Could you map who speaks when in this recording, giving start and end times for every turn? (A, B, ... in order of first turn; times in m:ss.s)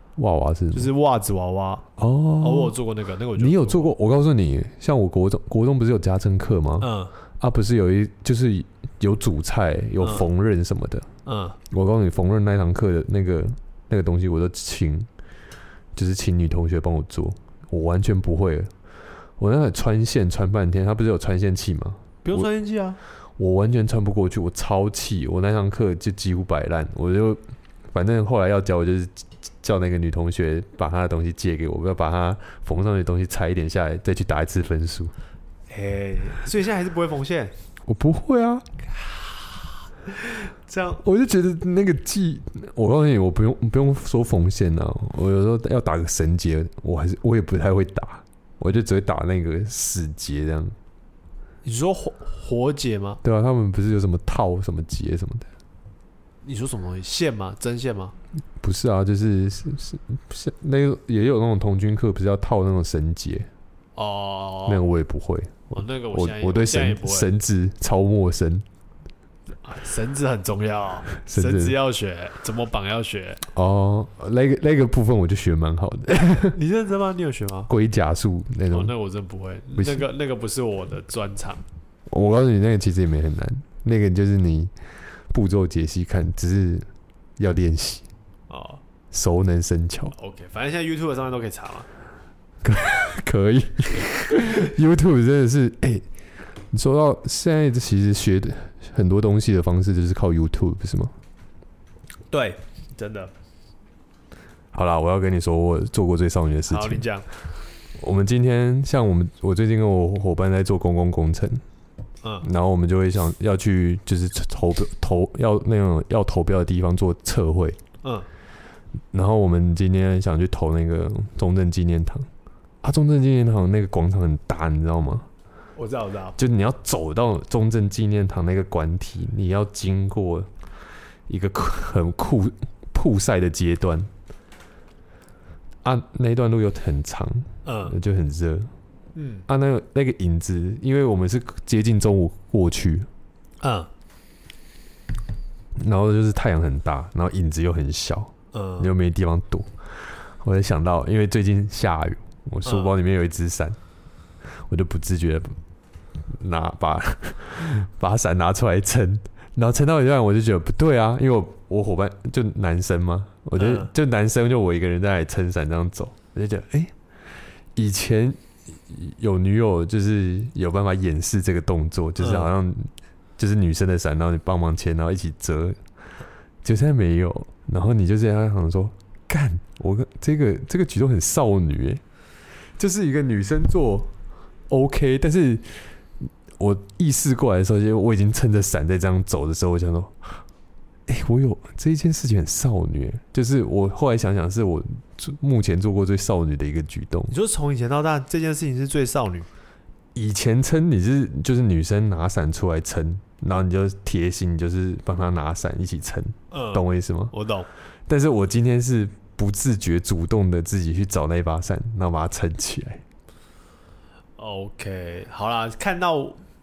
0:00.2-0:00.9 A
0:00.7-0:01.8 B
0:02.0-0:02.8 A
0:02.4-0:03.9 B
0:03.4-0:11.1 A
0:06.8-0:07.1 B
0:10.0-0:10.3 B
0:11.3-0:11.6 B
0:11.7-0:15.1 A
0:16.0-0:18.7 A
0:19.4-0:22.5 A
0:22.2-0:23.0 B
0:23.4-0:35.1 A
0:35.7-0:37.5 B
0:37.8-0:38.7 A
0:39.0-0:41.0 B
0:41.0-0:50.8 A
0:51.6-0:53.2 B
0:53.2-0:55.5 A
0:56.4-0:58.2 B
0:58.6-1:03.5 A
1:04.0-1:04.8 B
1:04.7-1:08.6 A
1:05.7-1:07.3 B
1:09.6-1:13.4 B
1:11.2-1:11.8 A
1:13.5-1:16.6 A
1:16.4-1:17.7 B
1:17.7-1:18.9 A
1:18.7-1:21.6 B
1:22.1-1:24.7 A
1:25.3-1:28.1 A
1:28.5-1:28.8 B
1:29.1-1:30.2 A
1:30.2-1:31.9 B
1:32.6-1:41.1 A
1:42.3-1:43.3 B
1:44.7-1:47.0 A
1:46.7-1:47.3 B
1:48.0-1:51.6 A
1:52.4-1:57.8 A
1:58.0-1:58.3 B
1:59.1-2:02.3 A
2:02.8-2:05.3 A
2:05.8-2:06.4 B
2:06.4-2:10.5 A
2:11.3-2:14.1 A
2:15.8-2:18.7 A
2:17.6-2:18.0 B
2:19.2-2:19.5 B
2:19.5-2:23.1 A
2:23.6-2:23.9 B
2:25.8-2:33.8 A
2:28.5-2:28.9 B
2:32.6-2:33.0 B
2:34.4-2:35.6 A
2:36.2-2:47.0 A
2:43.6-2:43.9 B
2:47.7-2:55.8 A
2:52.2-2:52.5 B
2:56.6-3:02.0 A
3:02.8-3:04.2 A
3:04.7-3:10.4 A
3:11.1-3:17.3 A
3:17.3-3:19.5 B
3:20.2-3:27.3 A
3:26.5-3:27.7 B
3:28.1-3:33.0 A
3:34.4-3:36.4 B